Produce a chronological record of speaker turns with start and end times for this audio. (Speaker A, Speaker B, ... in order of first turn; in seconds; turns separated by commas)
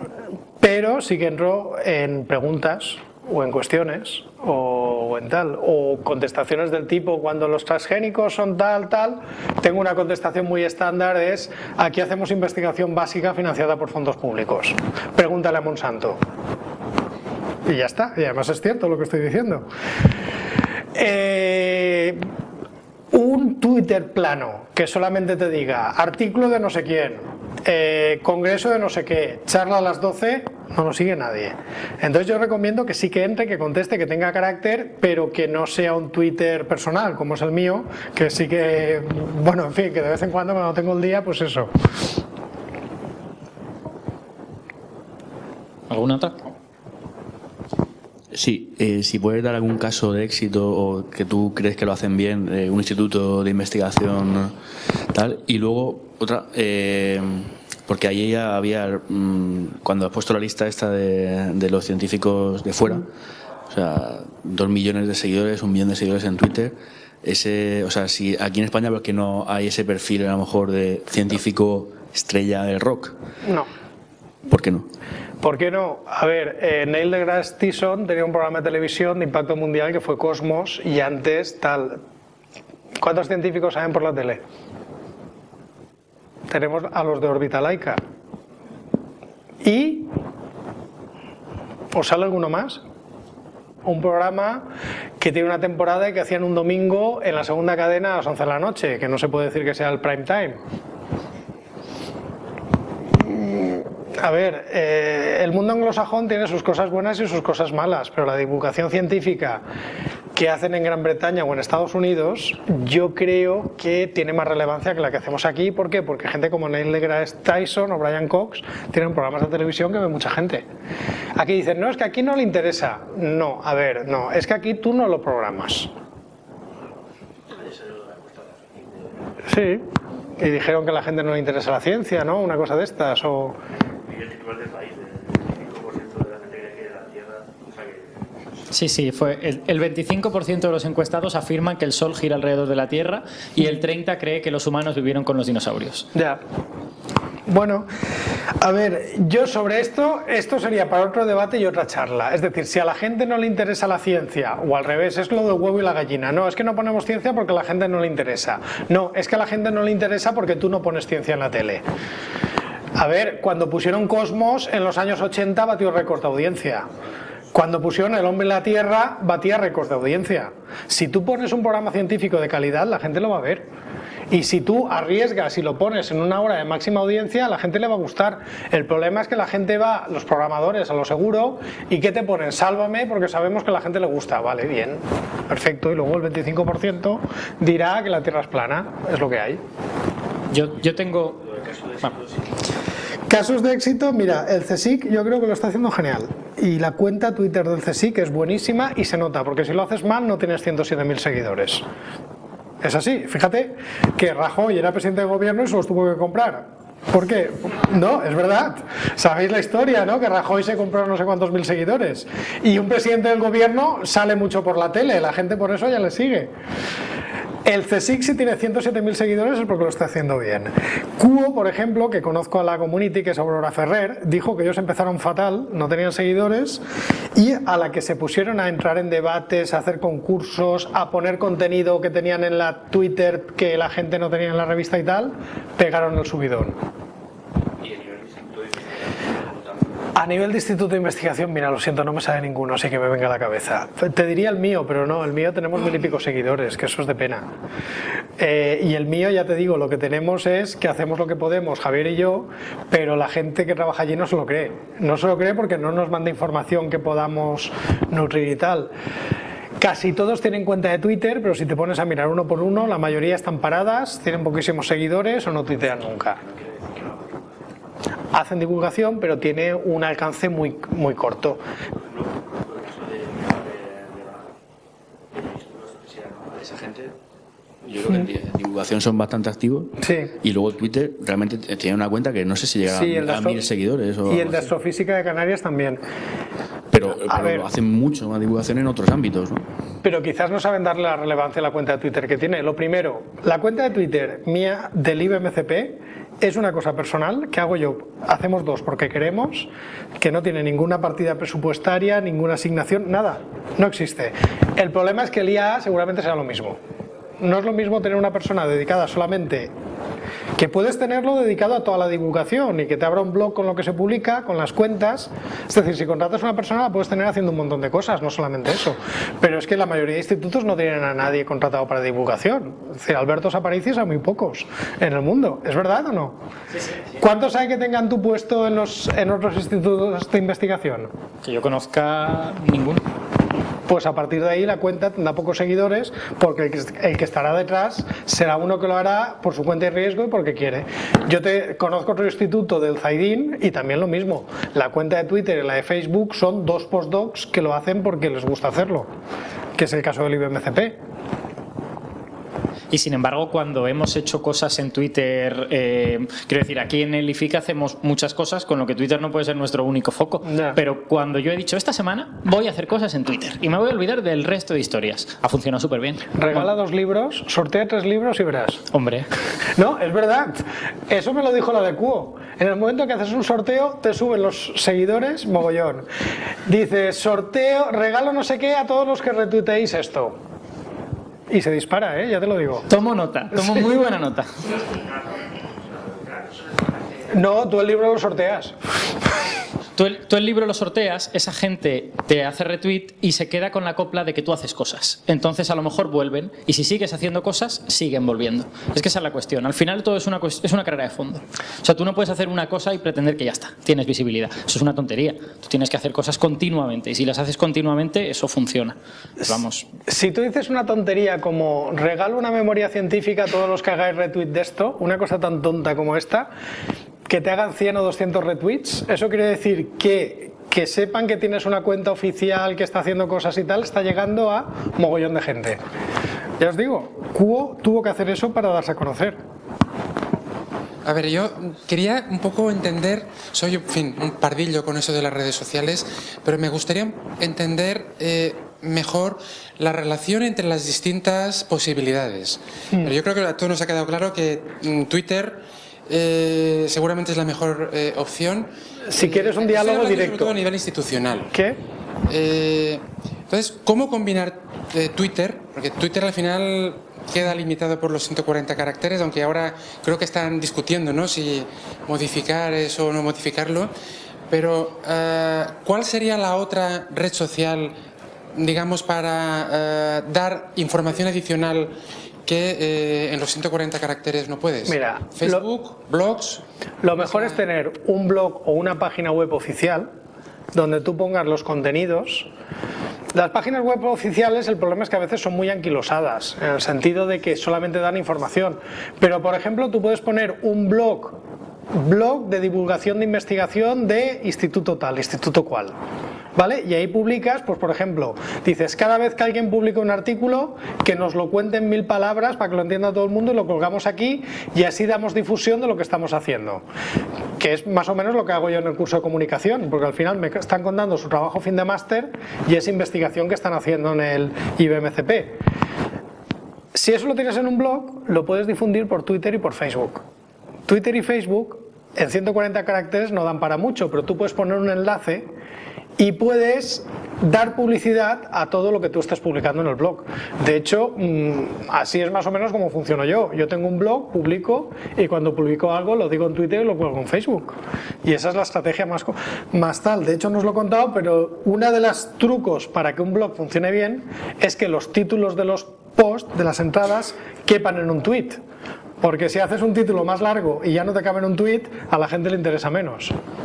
Speaker A: 0.6-16.2, Speaker A: 17.6-19.6, Speaker A: 20.9-22.2, Speaker A: 23.1-41.7, Speaker B: 45.9-46.5, Speaker C: 48.3-54.5, Speaker C: 55.1-63.0, Speaker C: 63.7-73.2, Speaker A: 73.4-73.7, Speaker C: 74.5-74.9, Speaker A: 75.4-82.0, Speaker A: 83.0-84.4, Speaker A: 86.5-88.0, Speaker A: 89.6-90.1, Speaker A: 91.9-92.8, Speaker A: 93.8-100.6, Speaker A: 103.2-109.6, Speaker A: 110.3-120.6, Speaker A: 121.3-125.9, Speaker A: 129.5-129.9, Speaker A: 130.4-133.6, Speaker C: 134.1-137.4, Speaker B: 138.7-146.1, Speaker A: 146.1-146.4, Speaker A: 147.5-147.9, Speaker A: 148.6-161.8, Speaker A: 162.9-166.9, Speaker A: 167.5-173.7, Speaker A: 174.3-189.6, Speaker B: 190.5-192.1, Speaker A: 193.3-201.8, Speaker A: 202.8-216.5, Speaker A: 217.6-226.8, Speaker A: 227.3-236.8, Speaker A: 240.1-247.5, Speaker A: 248.4-258.9, Speaker A: 259.8-266.4, Speaker A: 268.3-271.6, Speaker C: 272.6-274.4, Speaker C: 275.4-277.1, Speaker C: 277.8-284.7, Speaker A: 280.0-280.3, Speaker A: 282.9-283.6, Speaker A: 284.2-286.0, Speaker C: 286.9-289.6, Speaker A: 287.1-287.7, Speaker A: 290.0-306.8, Speaker A: 307.4-309.7, Speaker A: 310.6-326.4, Speaker A: 327.2-331.1, Speaker B: 331.4-333.0, Speaker A: 333.9-349.1, Speaker A: 349.8-351.0, Speaker B: 352.9-366.7, Speaker A: 360.5-360.8, Speaker A: 366.4-368.8, Speaker B: 368.9-369.3, Speaker A: 369.8-376.1, Speaker A: 376.6-380.4, Speaker A: 381.5-382.9, Speaker B: 382.9-384.7, Speaker A: 383.5-383.8, Speaker A: 387.3-388.7, Speaker B: 389.9-409.9, Speaker A: 410.1-416.5, Speaker A: 417.3-425.8, Speaker A: 426.6-429.4, Speaker D: 431.0-451.5, Speaker A: 449.1-450.6, Speaker A: 451.5-451.8, Speaker D: 452.3-463.9, Speaker D: 464.5-467.9, Speaker D: 468.5-476.6, Speaker A: 474.9-475.6, Speaker A: 477.0-480.1, Speaker A: 480.7-482.5, Speaker A: 483.3-491.4, Speaker A: 491.9-495.9, Speaker A: 496.6-506.8, Speaker A: 507.6-515.6, Speaker A: 516.9-520.2, Speaker A: 520.9-525.5, Speaker A: 526.2-548.6, Speaker A: 549.2-553.3